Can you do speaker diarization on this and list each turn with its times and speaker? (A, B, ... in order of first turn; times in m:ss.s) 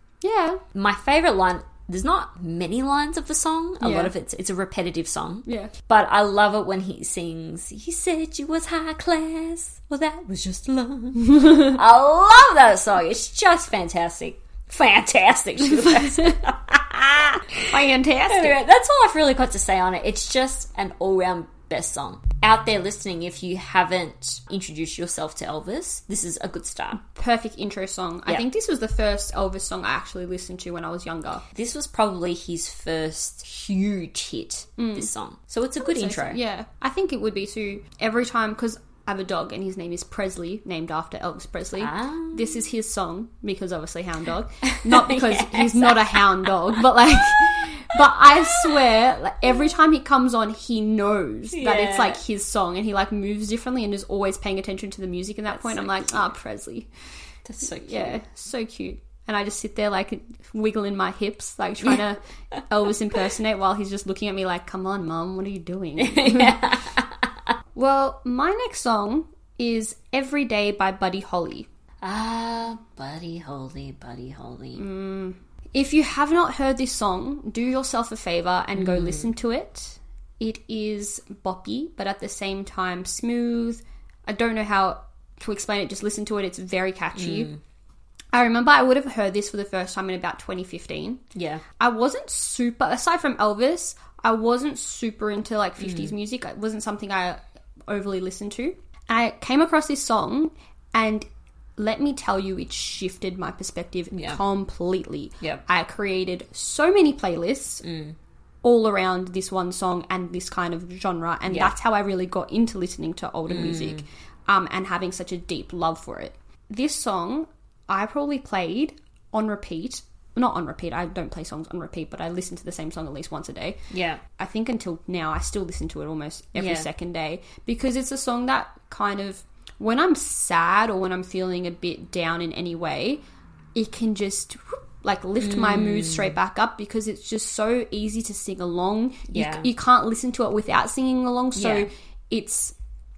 0:00.2-0:00.6 A
0:00.7-0:17.7 B
0:03.8-0:04.1 A
0:05.5-0:05.7 A
0:17.6-0:18.6 A
0:18.3-0:27.0 B
0:27.1-0:31.4 A
0:31.5-0:36.4 B
0:34.8-0:35.1 A
0:35.8-0:56.9 A
0:41.8-0:42.6 B
0:44.6-0:46.8 B
0:51.5-0:52.2 B
0:55.5-0:56.2 B
0:57.4-0:58.2 B
0:57.8-1:06.6 A
1:06.0-1:07.3 B
1:07.8-1:11.7 A
1:12.0-1:14.8 B
1:14.8-1:27.5 A
1:18.8-1:19.3 B
1:27.2-1:27.6 B
1:28.3-1:31.2 A
1:31.4-1:31.6 B
1:31.8-1:41.3 A
1:35.8-1:36.1 B
1:41.8-1:47.8 A
1:44.1-1:44.4 B
1:47.8-1:48.2 B
1:48.6-2:03.8 A
1:51.5-1:51.7 B
1:53.5-1:54.0 B
2:03.9-2:04.2 B
2:04.4-2:13.2 A
2:06.6-2:06.9 B
2:13.8-2:22.7 A
2:15.4-2:16.4 B
2:19.3-2:19.7 B
2:21.6-2:21.9 B